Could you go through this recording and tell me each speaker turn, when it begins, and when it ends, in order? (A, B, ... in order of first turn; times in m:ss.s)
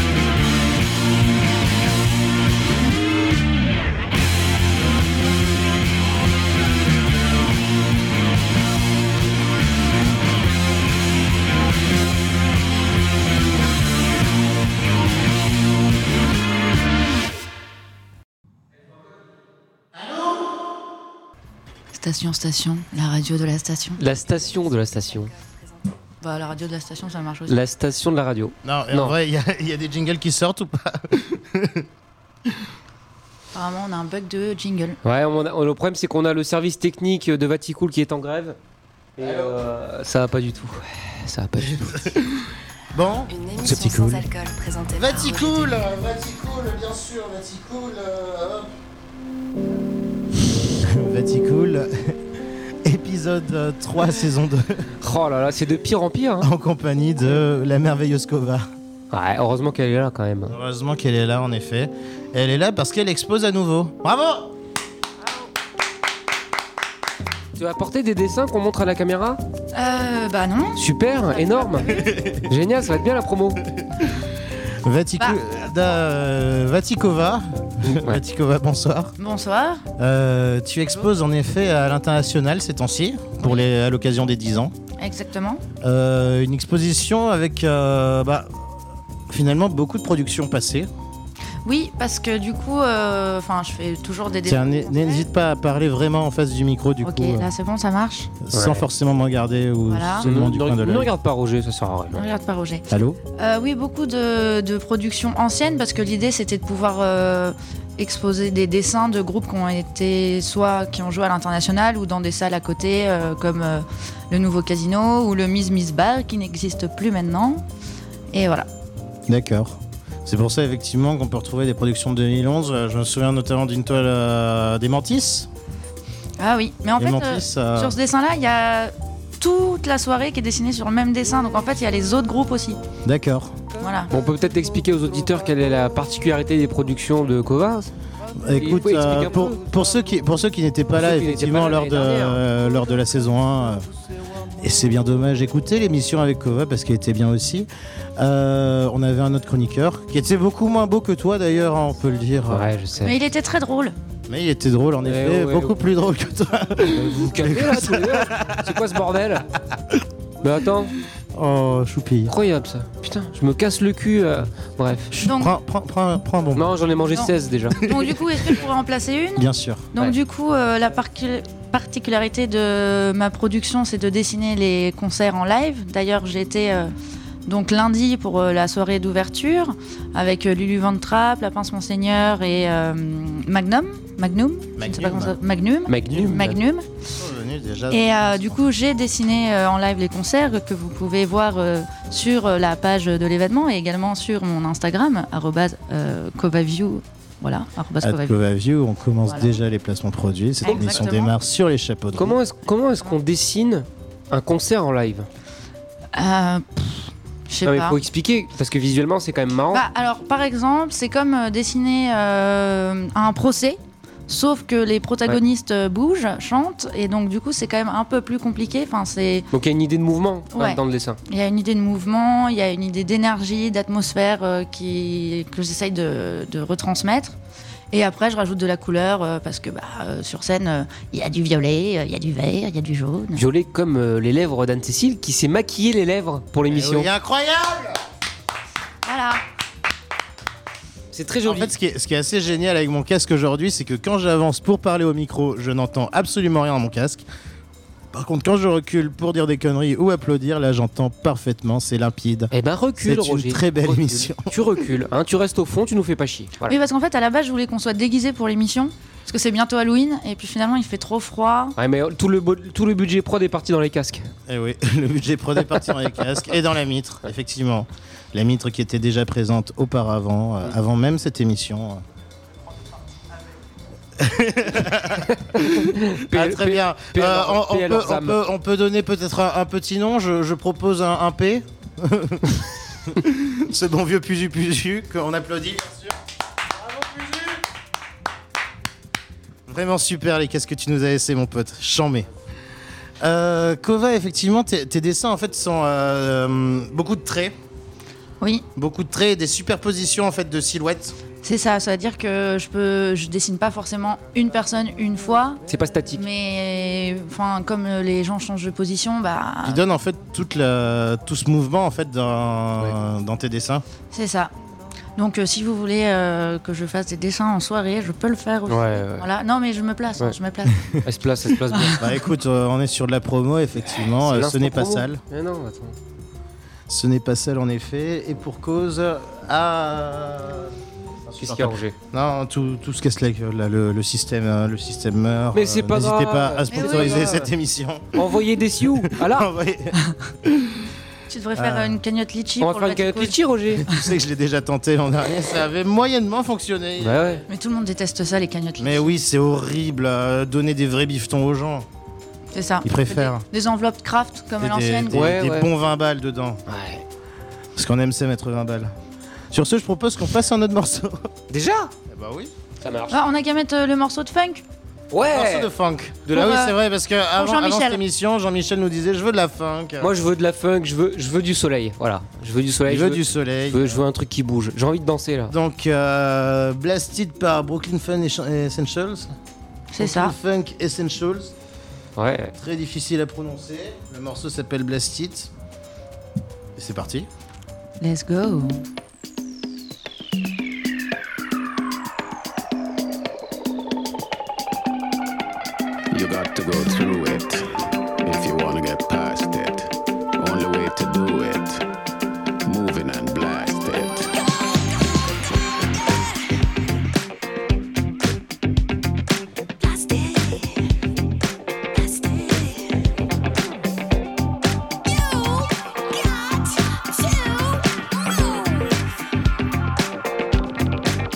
0:21.9-0:24.0 A
0:24.0-0:25.3 B
0:24.1-0:26.0 C
0:26.2-0:27.6 A
0:27.5-0:29.2 B
0:28.6-0:31.9 D
0:33.5-0:35.0 A
0:35.0-0:38.6 B
0:39.2-0:42.0 B
0:39.2-0:39.6 D
0:41.9-0:42.2 D
0:42.9-0:44.3 D
0:43.3-0:45.9 C
0:44.9-0:48.7 D
0:50.8-0:52.2 D
0:52.8-0:54.9 D
0:55.0-0:56.5 B
0:56.4-0:58.7 D
0:59.1-1:00.5 B
1:00.5-1:04.5 D
1:07.6-1:09.4 B
1:09.7-1:12.2 A
1:10.8-1:13.6 B
1:12.0-1:12.5 D
1:14.8-1:19.1 D
1:17.8-1:18.2 B
1:19.2-1:19.8 A
1:20.0-1:24.7 D
1:25.0-1:25.6 A
1:25.8-1:28.5 D
1:29.3-1:30.9 D
1:31.6-1:35.3 A
1:34.4-1:37.5 D
1:37.0-1:38.3 A
1:38.4-1:41.1 D
1:38.5-1:38.9 B
1:39.9-1:40.3 A
1:40.2-1:42.2 B
1:42.1-1:42.8 A
1:42.9-1:43.2 D
1:43.4-1:57.6 A
1:58.3-1:58.7 A
1:59.3-2:05.5 D
2:06.4-2:12.8 A
2:07.0-2:08.0 D
2:13.0-2:13.6 D
2:13.8-2:14.1 A
2:14.1-2:17.9 B
2:18.4-2:23.9 D
2:18.5-2:19.6 B
2:21.0-2:22.4 B
2:24.6-2:32.7 D
2:32.5-2:33.2 B
2:33.0-2:34.0 A
2:34.3-2:38.7 D
2:35.0-2:35.8 B
2:36.9-2:39.4 B
2:40.4-2:40.9 B
2:41.3-2:42.3 D
2:42.3-2:45.1 B
2:45.1-2:46.7 D
2:45.2-2:45.5 A
2:46.6-2:47.8 B
2:47.1-2:56.9 A
2:47.9-2:48.5 D
2:49.4-2:49.9 D
2:57.5-3:06.9 A
3:04.8-3:05.4 D
3:05.9-3:06.6 B
3:07.1-3:08.6 D
3:07.9-3:18.4 A
3:18.0-3:22.4 D
3:20.6-3:21.4 A
3:20.7-3:21.0 B
3:22.2-3:25.3 B
3:26.2-3:28.0 A
3:27.6-3:29.8 B
3:29.7-3:39.5 A
3:39.5-3:41.2 B
3:40.5-3:47.4 A
3:47.9-3:53.4 A
3:53.3-3:57.1 B
3:56.7-3:58.0 D
3:59.0-3:59.4 A
4:01.1-4:01.7 B
4:01.4-4:07.2 D
4:08.1-4:14.6 D
4:12.5-4:16.8 B
4:16.7-4:21.8 A
4:21.8-4:24.3 B
4:24.5-4:32.0 D
4:34.2-4:46.2 D
4:35.5-4:38.4 B
4:46.7-4:47.6 D
4:49.7-4:52.3 D
4:53.2-4:57.6 D
4:58.8-5:01.2 D
5:01.4-5:05.6 A
5:05.7-5:06.2 B
5:06.2-5:09.8 A
5:09.6-5:13.8 D
5:14.1-5:14.5 A
5:15.2-5:20.9 A
5:18.7-5:19.3 B
5:21.0-5:22.1 B
5:22.0-5:25.2 D
5:24.0-5:26.0 B
5:26.9-5:30.7 D
5:31.3-5:38.3 D
5:31.4-5:32.0 B
5:35.5-5:37.5 B
5:36.7-5:37.5 A
5:38.2-5:39.5 B
5:39.0-5:40.9 D
5:41.3-5:43.4 A
5:41.6-5:42.0 D
5:42.6-5:43.9 B
5:43.8-5:47.4 D
5:47.0-5:47.4 B
5:47.5-5:49.1 A
5:48.8-5:51.9 D
5:52.5-5:55.2 A
5:52.8-5:53.4 D
5:54.6-5:56.6 D
5:55.1-5:55.7 B
5:56.7-5:57.0 B
5:57.8-5:58.9 D
5:59.5-6:01.3 D
6:01.5-6:01.9 B
6:02.1-6:02.5 D
6:02.8-6:03.2 B
6:03.1-6:04.6 A
6:05.1-6:05.7 B
6:05.2-6:10.1 D
6:06.3-6:06.8 A
6:07.3-6:08.0 A
6:10.0-6:15.5 B
6:12.9-6:14.0 D
6:15.5-6:19.4 D
6:19.9-6:20.4 A
6:20.0-6:21.5 D
6:22.2-6:22.5 B
6:22.6-6:25.5 D
6:26.8-6:27.3 D
6:28.0-6:28.8 A
6:36.1-6:37.7 E
6:38.2-6:41.8 E
6:42.7-6:44.4 E